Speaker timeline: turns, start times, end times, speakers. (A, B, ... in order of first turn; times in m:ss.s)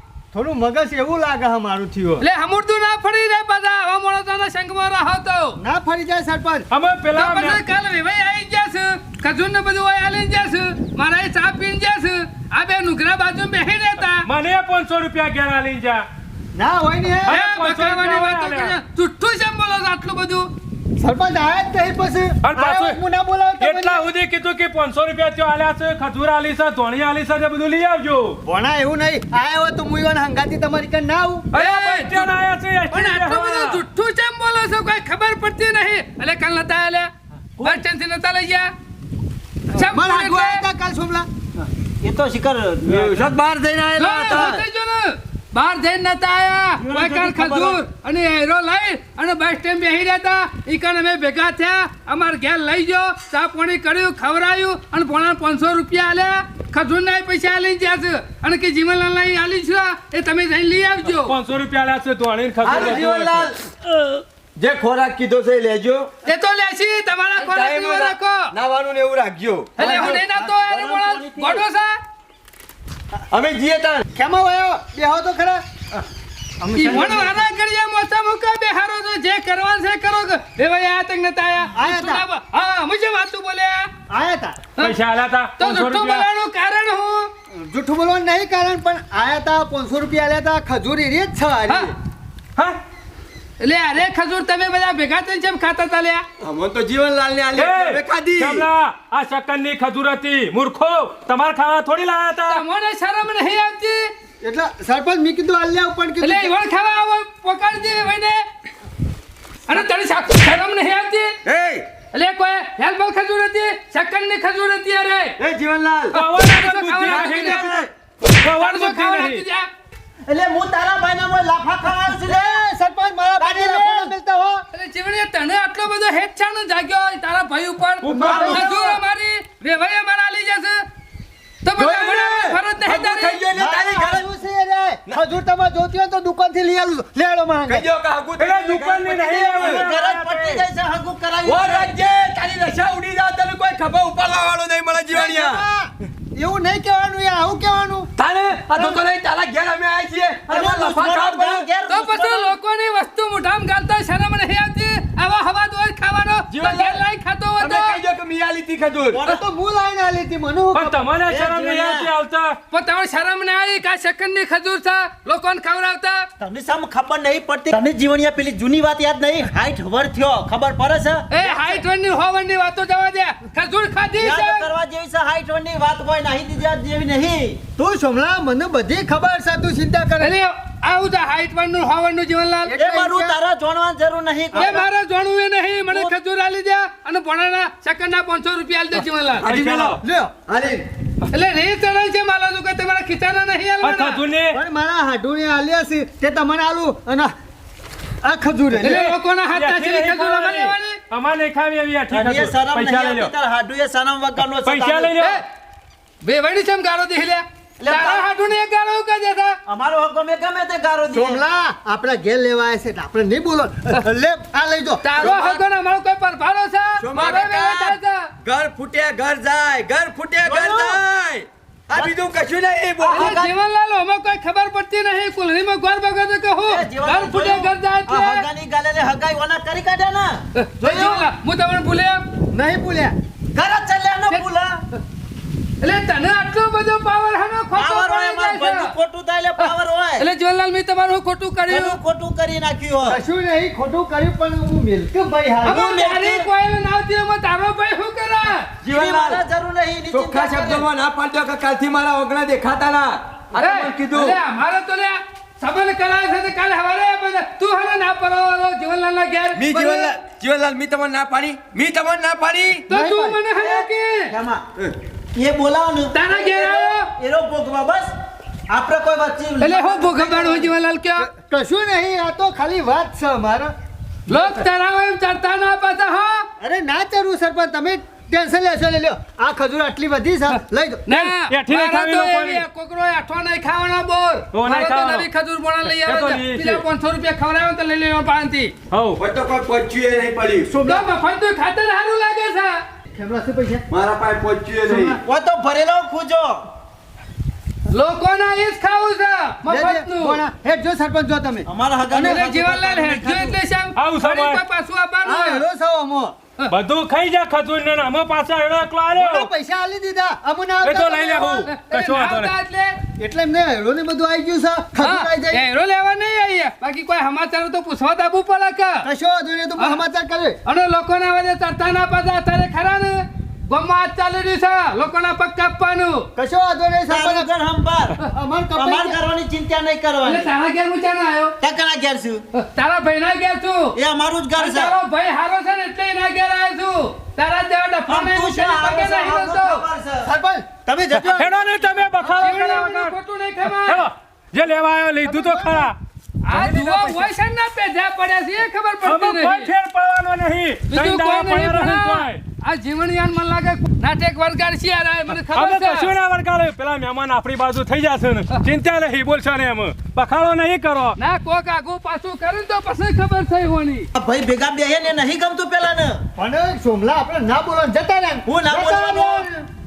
0:00.3-0:02.2 A
0:02.2-0:05.6 B
0:05.6-0:06.7 A
0:06.7-0:07.6 C
0:07.1-0:14.2 B
0:14.2-0:16.0 C
0:16.5-0:17.4 A
0:17.2-0:18.8 C
0:17.3-0:20.5 B
0:21.0-0:24.0 A
0:22.4-0:23.0 C
0:23.6-0:28.4 C
0:28.4-0:31.5 A
0:31.5-0:33.8 C
0:31.5-0:32.3 B
0:32.9-0:37.1 B
0:37.6-0:37.8 D
0:37.6-0:38.7 B
0:39.7-0:40.6 B
0:39.7-0:41.3 A
0:41.6-0:43.4 D
0:42.9-0:44.6 E
0:44.0-1:01.3 B
0:44.2-0:44.6 D
0:46.8-0:47.8 D
1:01.2-1:03.4 C
1:02.6-1:03.6 E
1:02.6-1:03.4 D
1:04.6-1:06.1 E
1:06.2-1:08.5 B
1:07.4-1:09.9 E
1:09.8-1:11.9 B
1:09.8-1:10.3 A
1:09.8-1:11.6 D
1:13.3-1:14.0 E
1:14.1-1:16.0 A
1:16.6-1:17.4 A
1:16.7-1:23.9 B
1:21.7-1:22.2 A
1:24.1-1:24.6 A
1:24.8-1:26.2 C
1:25.6-1:27.3 B
1:27.5-1:31.9 A
1:33.6-1:36.2 B
1:36.4-1:38.6 E
1:37.5-1:42.6 C
1:42.5-1:44.1 B
1:44.4-1:46.5 A
1:46.2-1:48.4 B
1:49.7-1:51.4 B
1:51.4-1:51.9 E
1:52.1-1:55.3 B
1:55.4-1:56.2 E
1:56.1-1:57.6 B
1:56.1-1:59.4 C
1:57.0-1:57.9 E
1:58.6-1:59.7 B
2:00.3-2:02.6 D
2:01.8-2:04.6 A
2:03.4-2:04.1 D
2:04.7-2:10.8 B
2:08.0-2:08.7 C
2:08.1-2:09.0 A
2:11.6-2:13.4 B
2:11.8-2:14.3 E
2:13.5-2:17.9 A
2:17.6-2:19.8 E
2:18.4-2:20.6 C
2:19.6-2:21.9 D
2:21.4-2:25.6 E
2:25.1-2:28.1 A
2:28.2-2:31.6 E
2:30.5-2:32.5 D
2:31.9-2:38.0 B
2:36.5-2:37.0 E
2:37.6-2:39.2 E
2:39.1-2:39.4 D
2:39.2-2:41.0 A
2:40.7-2:42.6 C
2:41.3-2:42.1 D
2:42.7-2:46.2 B
2:46.4-2:51.3 D
2:51.3-2:54.7 B
2:54.2-2:57.6 D
2:57.8-3:00.3 A
3:00.2-3:02.7 B
3:02.6-3:03.4 A
3:02.7-3:04.9 D
3:04.5-3:04.8 A
3:04.5-3:09.5 B
3:05.9-3:06.1 D
3:09.4-3:10.8 E
3:09.4-3:10.0 C
3:10.0-3:10.5 A
3:11.3-3:14.2 B
3:13.8-3:14.6 C
3:14.5-3:17.3 A
3:18.2-3:19.0 A
3:18.8-3:23.3 C
3:18.8-3:21.0 B
3:22.1-3:25.1 D
3:24.6-3:25.4 C
3:26.2-3:29.6 B
3:27.8-3:28.2 D
3:29.7-3:31.4 D
3:31.1-3:35.2 A
3:35.0-3:38.3 B
3:35.2-3:35.6 E
3:37.0-3:43.4 E
3:40.4-3:41.0 D
3:43.0-3:43.5 D
3:43.1-3:48.4 B
3:46.6-3:51.3 D
3:50.6-3:52.2 B
3:52.5-3:53.1 A
3:53.5-3:54.8 D
3:55.8-3:58.9 B
3:57.7-4:00.3 D
3:59.6-4:02.0 B
4:01.7-4:03.2 D
4:03.1-4:05.8 A
4:05.6-4:06.5 D
4:05.6-4:08.7 B
4:08.8-4:09.4 E
4:08.8-4:10.8 D
4:10.1-4:14.4 E
4:13.6-4:20.2 B
4:19.6-4:22.9 E
4:22.9-4:24.3 B
4:22.9-4:23.4 A
4:23.6-4:24.6 D
4:25.3-4:28.1 D
4:26.1-4:27.1 B
4:28.7-4:30.4 D
4:29.6-4:31.3 B
4:30.2-4:30.7 A
4:31.2-4:33.7 A
4:34.3-4:36.4 B
4:36.6-4:41.0 A
4:40.5-4:48.7 B
4:41.2-4:42.6 C
4:44.5-4:45.2 C
4:45.8-4:46.8 C
4:48.9-4:49.2 C
4:49.2-4:50.7 E
4:50.7-4:51.1 A
4:50.8-4:52.8 B
4:53.1-4:53.8 A
4:53.9-4:55.2 E
4:54.9-4:55.2 A
4:55.2-4:56.6 D
4:57.9-5:00.4 B
4:59.6-5:02.4 A
5:01.6-5:03.6 D
5:02.2-5:05.6 B
5:04.0-5:04.6 C
5:05.2-5:06.4 A
5:06.7-5:09.5 C
5:09.2-5:11.7 A
5:10.8-5:12.5 C
5:11.6-5:13.0 B
5:13.2-5:15.6 A
5:15.0-5:19.1 B
5:19.0-5:20.6 A
5:20.6-5:26.3 B
5:26.4-5:27.5 A
5:27.1-5:28.2 D
5:28.3-5:29.2 A
5:28.7-5:30.5 D
5:30.2-5:31.6 B
5:31.6-5:32.4 D
5:32.5-5:34.0 B
5:33.9-5:35.0 D
5:34.6-5:39.8 B
5:38.1-5:40.3 D
5:40.2-5:42.8 A
5:41.1-5:41.4 D
5:41.1-5:43.1 C
5:42.4-5:44.0 B
5:43.6-5:46.0 C
5:45.2-5:45.9 A
5:46.4-5:49.7 B
5:46.5-5:47.3 C
5:49.0-5:52.4 C
5:50.9-5:56.1 B
5:55.5-6:01.2 C
6:01.2-6:04.1 B
6:04.1-6:06.2 D
6:06.4-6:09.6 A
6:08.4-6:09.4 D